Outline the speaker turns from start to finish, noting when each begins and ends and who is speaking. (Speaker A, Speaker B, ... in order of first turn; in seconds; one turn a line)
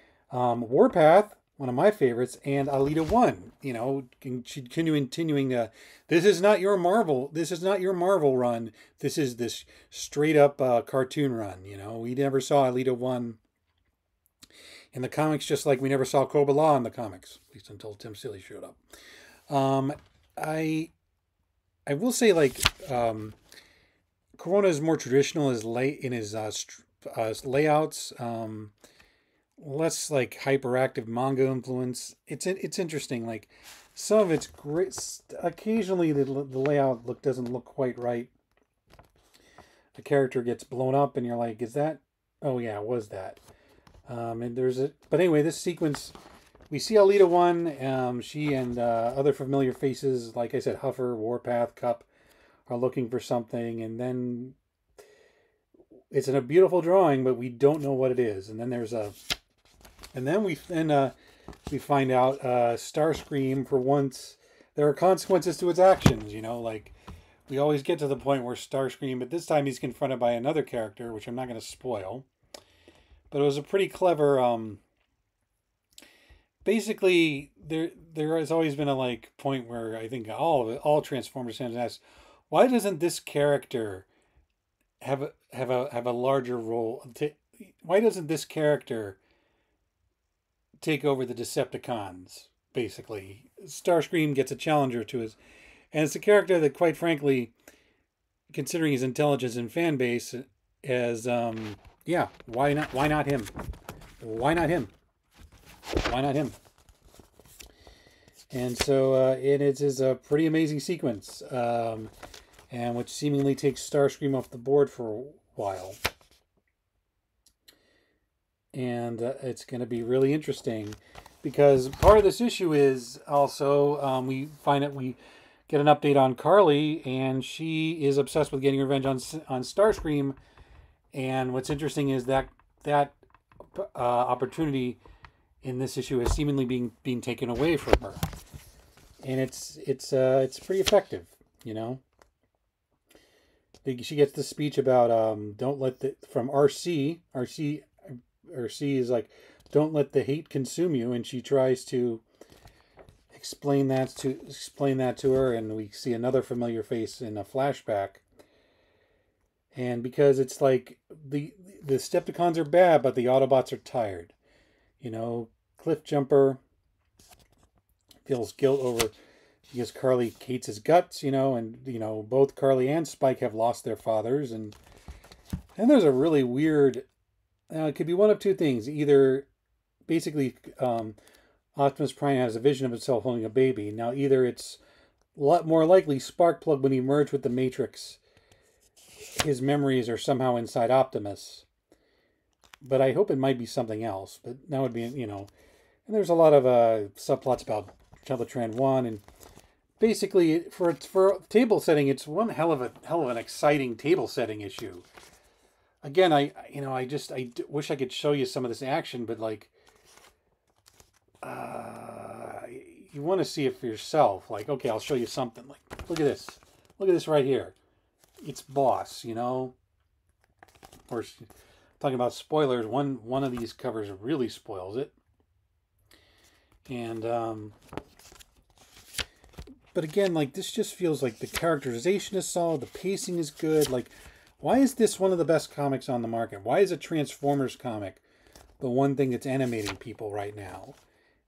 Speaker A: 0.3-13.4
Speaker A: 14.9-18.8
Speaker A: 19.5-20.9
Speaker A: 21.9-23.4
Speaker A: 24.4-28.7
Speaker A: 29.6-38.3
Speaker A: 40.0-43.4
Speaker A: 44.1-46.1
Speaker A: 46.7-52.1
Speaker A: 52.7-54.6
Speaker A: 56.1-59.2
Speaker A: 60.1-61.1
Speaker A: 61.7-67.0
Speaker A: 67.5-72.3
Speaker A: 73.3-74.8
Speaker A: 76.6-84.1
Speaker A: 85.0-89.2
Speaker A: 90.8-95.4
Speaker A: 95.9-97.5
Speaker A: 98.5-103.5
Speaker A: 104.2-104.9
Speaker A: 106.0-106.6
Speaker A: 108.5-112.1
Speaker A: 112.7-116.0
Speaker A: 118.7-130.4
Speaker A: 131.1-135.0
Speaker A: 135.6-138.2
Speaker A: 139.2-142.0
Speaker A: 143.8-152.2
Speaker A: 153.3-158.2
Speaker A: 159.7-164.3
Speaker A: 165.0-166.6
Speaker A: 168.2-169.1
Speaker A: 169.7-174.8
Speaker A: 175.8-177.1
Speaker A: 177.7-179.5
Speaker A: 180.1-181.2
Speaker A: 181.8-184.8
Speaker A: 185.4-188.2
Speaker A: 189.4-191.7
Speaker A: 192.8-195.5
Speaker A: 196.1-199.2
Speaker A: 200.0-205.1
Speaker A: 206.0-209.7
Speaker A: 211.4-217.8
Speaker A: 218.4-219.8
Speaker A: 221.1-221.5
Speaker A: 222.0-225.1
Speaker A: 226.9-227.8
Speaker A: 229.9-238.2
Speaker A: 238.8-241.0